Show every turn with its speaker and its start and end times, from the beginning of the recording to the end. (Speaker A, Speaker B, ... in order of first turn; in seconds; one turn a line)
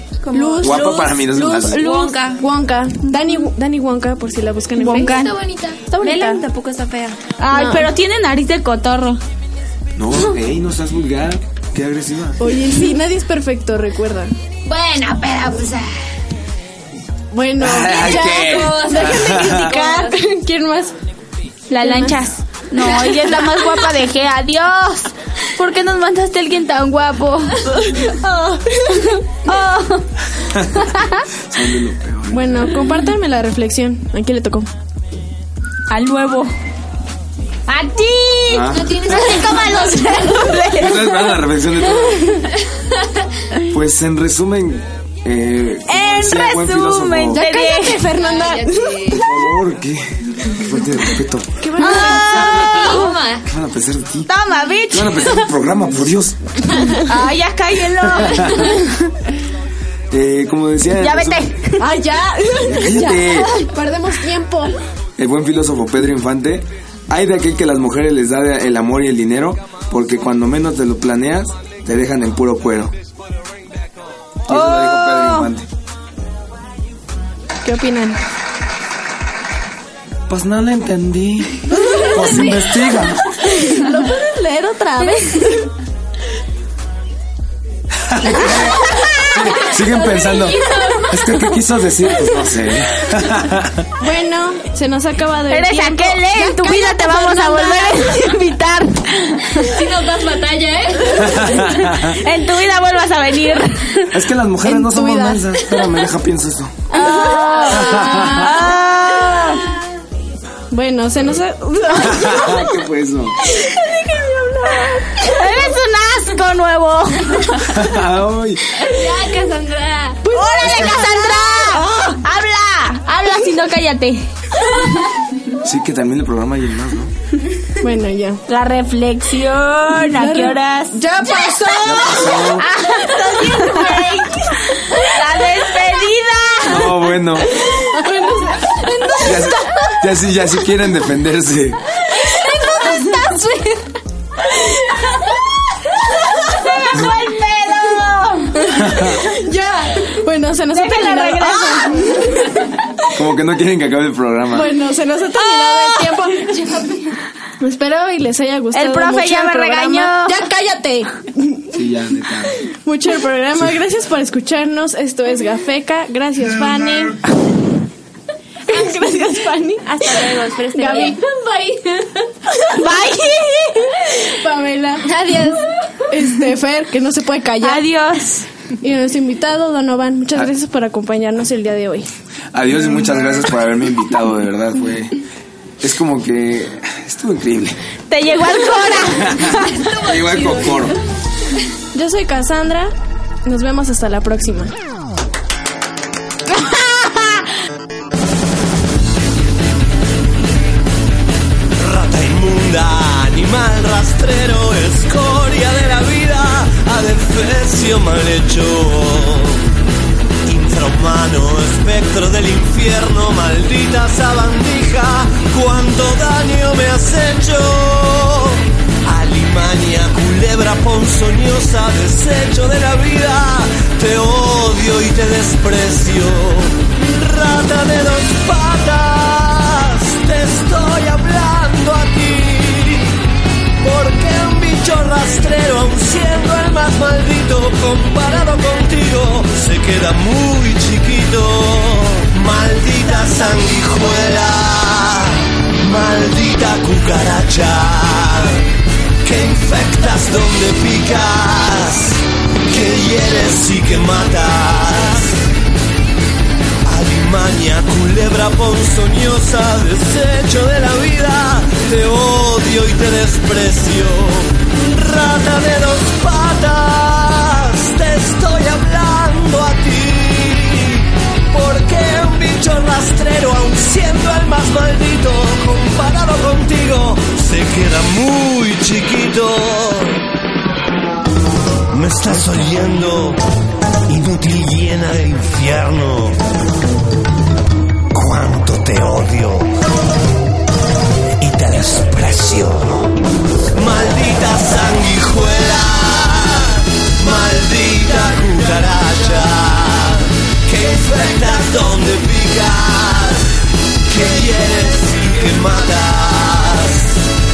Speaker A: 0.2-2.4
Speaker B: 0.3-1.1
Speaker C: 0.6-1.9
Speaker B: 1.8-5.2
Speaker A: 4.8-5.4
Speaker D: 4.9-5.9
Speaker B: 5.9-6.4
Speaker E: 6.4-7.1
Speaker A: 7.4-9.2
Speaker B: 7.5-7.9
Speaker C: 10.0-12.6
Speaker B: 12.4-14.3
Speaker D: 14.6-15.9
Speaker B: 17.3-20.9
Speaker C: 17.6-19.7
Speaker D: 17.9-20.2
Speaker A: 21.7-30.1
Speaker B: 21.8-22.2
Speaker B: 22.9-23.5
Speaker C: 30.5-30.9
Speaker C: 31.5-32.7
Speaker B: 32.3-34.7
Speaker A: 35.9-36.5
Speaker A: 37.7-41.4
Speaker C: 38.5-39.1
Speaker D: 38.6-40.5
Speaker C: 40.7-42.2
Speaker D: 42.6-43.2
Speaker C: 43.7-47.4
Speaker A: 45.9-48.2
Speaker B: 47.3-49.2
Speaker D: 48.1-49.3
Speaker C: 49.1-51.7
Speaker B: 51.6-53.1
Speaker A: 51.8-53.2
Speaker D: 52.0-53.5
Speaker C: 53.4-54.3
Speaker A: 54.3-55.5
Speaker C: 54.9-56.4
Speaker A: 56.9-59.0
Speaker C: 58.0-58.7
Speaker C: 60.1-61.5
Speaker A: 61.0-61.9
Speaker B: 61.8-64.8
Speaker C: 62.6-63.5
Speaker C: 65.2-72.9
Speaker C: 74.5-75.7
Speaker A: 74.5-75.5
Speaker B: 77.6-78.2
Speaker C: 80.3-83.4
Speaker B: 81.7-82.6
Speaker B: 83.3-85.7
Speaker A: 85.0-85.6
Speaker C: 88.0-93.9
Speaker A: 88.4-89.7
Speaker D: 90.0-91.4
Speaker B: 94.0-98.3
Speaker A: 95.5-99.6
Speaker D: 99.5-101.6
Speaker C: 101.3-102.1
Speaker A: 101.7-104.1
Speaker C: 104.1-106.9
Speaker B: 104.6-105.7
Speaker A: 106.9-109.7
Speaker B: 106.9-108.4
Speaker C: 107.7-108.5
Speaker B: 110.7-112.7
Speaker C: 112.0-113.4
Speaker B: 113.5-115.4
Speaker A: 115.2-117.8
Speaker C: 117.7-118.6
Speaker D: 118.8-120.3
Speaker B: 120.2-121.8
Speaker A: 120.3-124.3
Speaker C: 120.6-121.2
Speaker C: 125.6-127.1
Speaker B: 127.8-128.4
Speaker A: 128.5-131.0
Speaker B: 130.0-134.1
Speaker C: 131.8-132.7
Speaker A: 132.3-136.9
Speaker C: 136.6-137.6
Speaker B: 137.9-140.0
Speaker C: 139.2-141.8
Speaker A: 142.3-143.4
Speaker A: 146.2-148.7
Speaker B: 148.6-152.7
Speaker C: 148.8-149.2
Speaker A: 150.7-152.4
Speaker C: 153.1-154.7
Speaker B: 154.5-156.7
Speaker A: 155.4-156.3
Speaker B: 157.6-161.8
Speaker A: 158.7-160.4
Speaker C: 161.7-162.6
Speaker B: 162.8-167.2
Speaker B: 168.7-171.2
Speaker E: 169.9-171.1
Speaker D: 171.0-172.3
Speaker A: 172.7-174.1
Speaker B: 174.1-175.1
Speaker E: 175.0-175.7
Speaker B: 176.1-177.8
Speaker A: 177.6-178.5
Speaker B: 178.8-182.1
Speaker C: 182.5-185.2
Speaker C: 185.8-187.8
Speaker A: 188.1-189.8
Speaker C: 189.1-191.0
Speaker D: 189.7-190.9
Speaker B: 191.9-192.9
Speaker B: 193.4-194.7
Speaker A: 196.6-197.3
Speaker F: 201.7-209.6
Speaker F: 210.4-233.1
Speaker F: 233.8-248.6
Speaker F: 249.2-255.4
Speaker F: 256.8-280.2
Speaker F: 281.9-283.4
Speaker F: 284.1-286.4
Speaker F: 288.1-289.7
Speaker F: 291.4-293.1
Speaker F: 293.7-307.2